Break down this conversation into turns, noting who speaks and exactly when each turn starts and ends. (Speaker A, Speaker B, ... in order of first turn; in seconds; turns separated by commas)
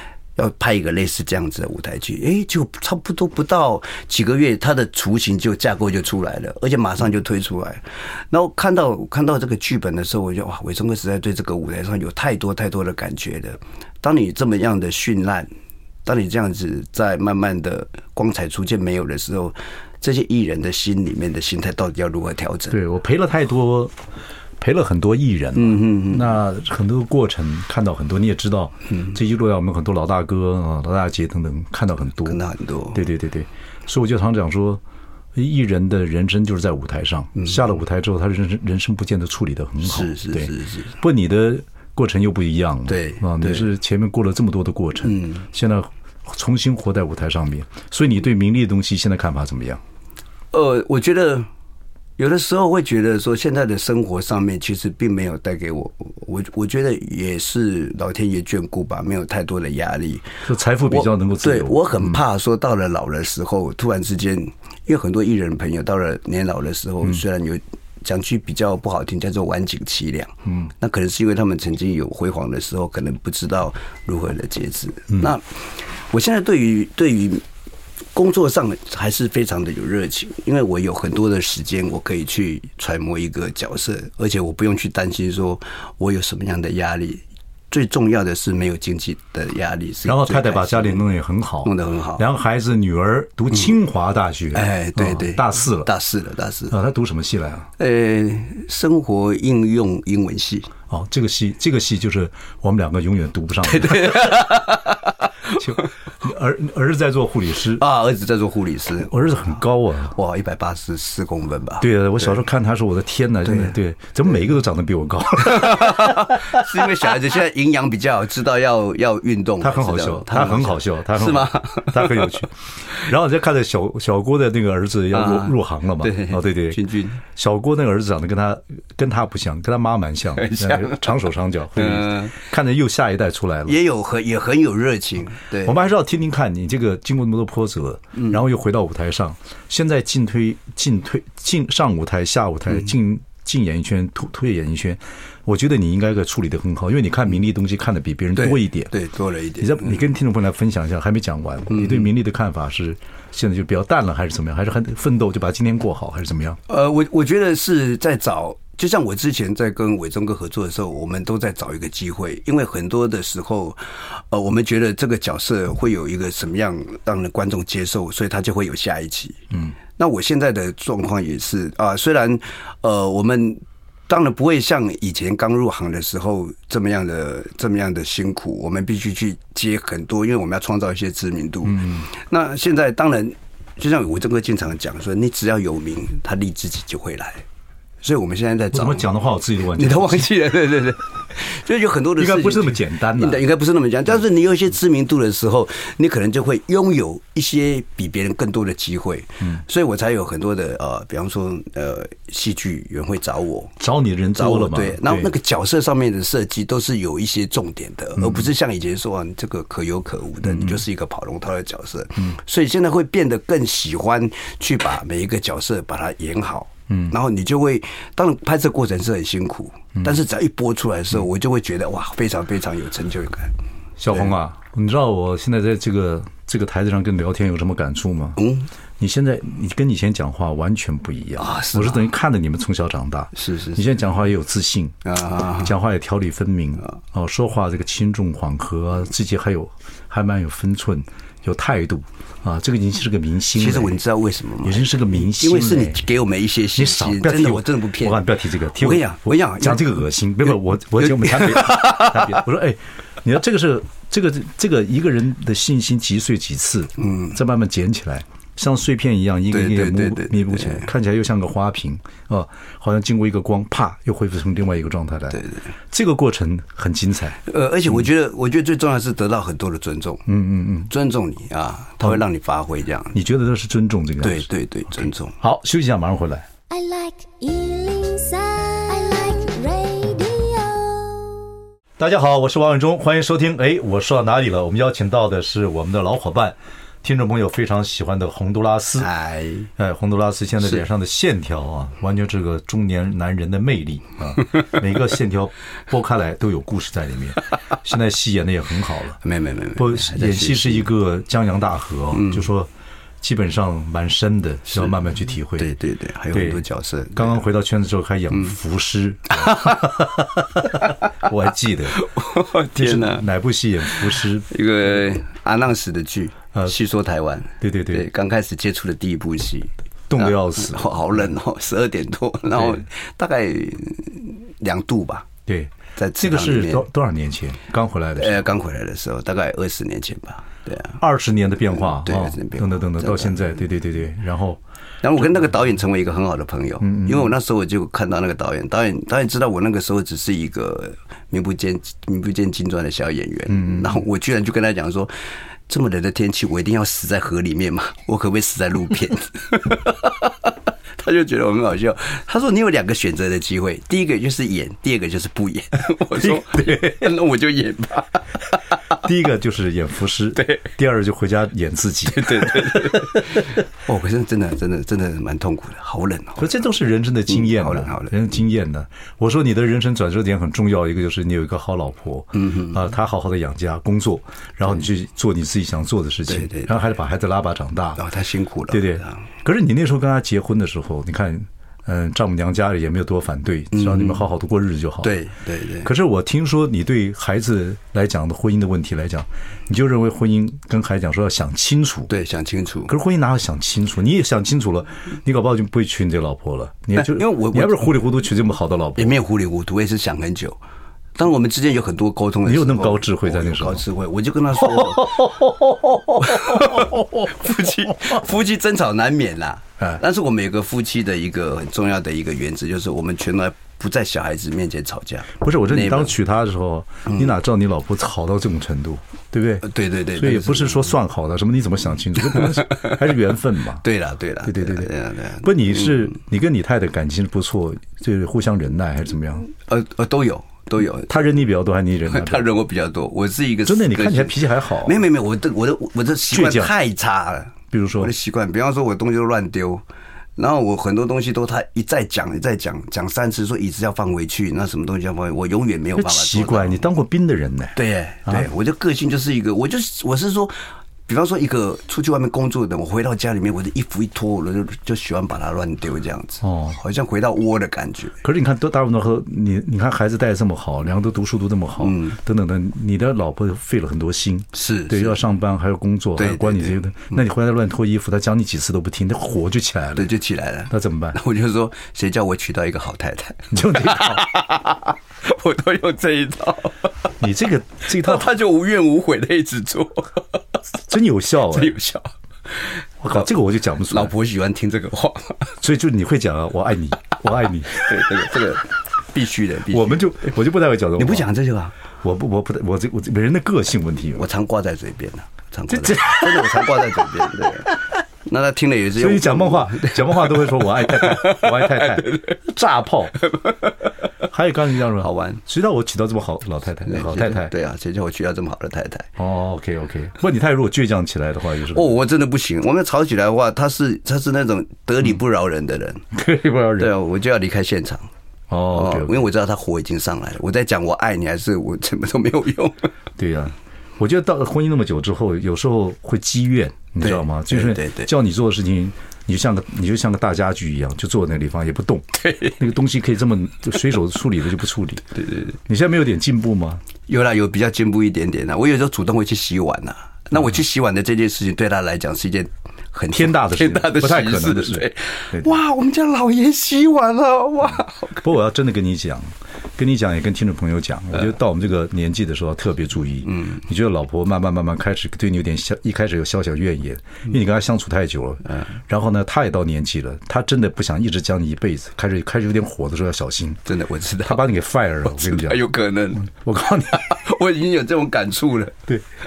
Speaker A: 0.3-15.5, Speaker A: 16.0-22.8, Speaker B: 22.7-23.9, Speaker B: 24.6-32.4, Speaker A: 25.6-26.4, Speaker A: 32.2-33.0, Speaker B: 32.9-34.8, Speaker B: 35.3-49.8, Speaker A: 39.8-41.0, Speaker A: 42.9-43.7, Speaker A: 45.0-45.5, Speaker A: 50.5-51.5, Speaker A: 52.2-77.4, Speaker B: 60.4-62.2, Speaker A: 78.1-91.0, Speaker B: 90.0-95.9, Speaker A: 91.6-92.2, Speaker A: 94.5-96.8, Speaker B: 96.7-97.7, Speaker A: 97.8-100.7, Speaker B: 100.9-104.5, Speaker A: 103.7-105.6, Speaker B: 105.5-107.8, Speaker A: 107.8-112.4, Speaker B: 109.1-110.1, Speaker B: 111.8-116.7, Speaker A: 113.4-113.7, Speaker A: 115.4-122.4, Speaker B: 119.6-126.8, Speaker A: 125.1-127.2, Speaker B: 127.3-133.8, Speaker A: 130.3-131.1, Speaker A: 131.7-132.4, Speaker A: 133.7-135.8, Speaker B: 135.6-148.9, Speaker A: 148.3-150.0, Speaker B: 149.6-156.6, Speaker A: 151.7-152.1, Speaker A: 156.7-187.4, Speaker B: 181.7-182.1, Speaker A: 188.0-189.1, Speaker B: 188.7-190.3, Speaker A: 189.7-203.8, Speaker B: 192.2-193.4, Speaker B: 203.8-205.3, Speaker A: 204.3-223.5, Speaker B: 208.2-208.5, Speaker B: 210.4-210.8, Speaker B: 224.0-228.4, Speaker A: 228.4-228.7, Speaker B: 229.0-235.0, Speaker A: 231.4-232.1, Speaker A: 233.3-233.8, Speaker A: 235.0-235.7, Speaker B: 235.6-244.0, Speaker A: 243.5-250.0, Speaker B: 244.6-246.0, Speaker B: 246.7-267.4, Speaker A: 251.0-252.4, Speaker A: 257.0-257.3, Speaker A: 259.5-260.9, Speaker A: 265.3-265.7, Speaker A: 267.4-270.3, Speaker B: 270.3-270.9, Speaker A: 270.9-273.2, Speaker B: 273.1-274.5, Speaker A: 274.2-275.4, Speaker B: 275.1-276.5, Speaker C: 276.7-281.5, Speaker B: 282.0-289.1, Speaker A: 289.0-289.7, Speaker B: 289.8-299.2, Speaker A: 299.2-300.9, Speaker B: 299.8-302.7, Speaker A: 302.1-302.5, Speaker B: 303.2-305.7, Speaker A: 305.6-307.4, Speaker B: 306.3-306.6, Speaker B: 307.1-312.0, Speaker A: 309.5-309.8, Speaker A: 311.9-313.2, Speaker B: 312.7-314.5, Speaker A: 314.5-325.3, Speaker B: 317.6-318.1, Speaker B: 320.1-321.2, Speaker B: 322.6-322.8, Speaker B: 325.5-328.4, Speaker A: 325.9-326.9, Speaker A: 328.2-331.0, Speaker B: 331.0-334.6, Speaker A: 331.7-333.6, Speaker A: 335.0-345.1, Speaker B: 336.8-337.3, Speaker B: 343.5-344.0, Speaker A: 345.7-358.6, Speaker B: 356.2-356.9, Speaker B: 358.9-363.4, Speaker A: 362.1-366.5, Speaker B: 366.4-378.0, Speaker A: 367.3-368.1, Speaker A: 372.3-372.8, Speaker A: 376.3-376.8, Speaker A: 378.0-379.2, Speaker B: 378.7-385.1, Speaker A: 383.7-384.2, Speaker A: 385.0-385.9, Speaker B: 385.8-392.1, Speaker A: 392.1-392.9, Speaker B: 392.9-399.2, Speaker A: 396.9-397.9, Speaker A: 399.0-400.6, Speaker A: 401.1-405.4, Speaker B: 402.4-403.8, Speaker B: 404.6-407.3, Speaker A: 406.2-416.1, Speaker B: 415.4-423.8, Speaker A: 417.1-417.3, Speaker A: 419.6-420.9, Speaker A: 422.3-423.0, Speaker A: 423.8-426.1, Speaker B: 424.4-429.5, Speaker A: 429.6-431.3, Speaker B: 431.1-432.5, Speaker A: 432.1-439.8, Speaker B: 433.6-435.0, Speaker B: 436.3-436.7, Speaker B: 437.7-438.1, Speaker A: 440.4-446.8, Speaker B: 446.0-448.5, Speaker A: 447.7-450.5, Speaker A: 451.1-458.2, Speaker B: 456.4-456.8, Speaker B: 458.2-470.1, Speaker A: 461.8-462.2, Speaker A: 464.5-465.2, Speaker A: 466.2-467.2, Speaker A: 469.9-476.9, Speaker B: 470.7-471.2, Speaker B: 473.5-474.3, Speaker B: 477.2-478.3, Speaker A: 477.9-480.4, Speaker B: 480.9-481.7, Speaker A: 481.5-483.3, Speaker B: 483.0-484.1, Speaker A: 483.9-485.5, Speaker B: 485.6-487.9, Speaker A: 487.8-490.3, Speaker B: 489.7-491.3, Speaker A: 491.0-491.7, Speaker B: 492.0-494.2, Speaker A: 494.1-502.3, Speaker B: 495.7-497.5, Speaker B: 498.9-503.2, Speaker B: 504.2-507.5, Speaker A: 505.0-505.4, Speaker A: 506.8-509.1, Speaker B: 509.2-511.9, Speaker A: 511.7-516.0, Speaker B: 516.1-516.9, Speaker A: 516.8-518.1, Speaker B: 518.5-519.2, Speaker A: 518.7-522.9, Speaker B: 523.2-536.8, Speaker A: 527.0-528.1, Speaker A: 532.2-532.6, Speaker A: 535.1-535.5, Speaker A: 537.1-548.2, Speaker B: 543.1-544.9, Speaker B: 547.7-563.6, Speaker A: 553.3-553.6, Speaker A: 563.6-564.4, Speaker B: 564.2-565.6, Speaker A: 565.0-566.3, Speaker B: 566.2-567.1, Speaker A: 566.9-568.8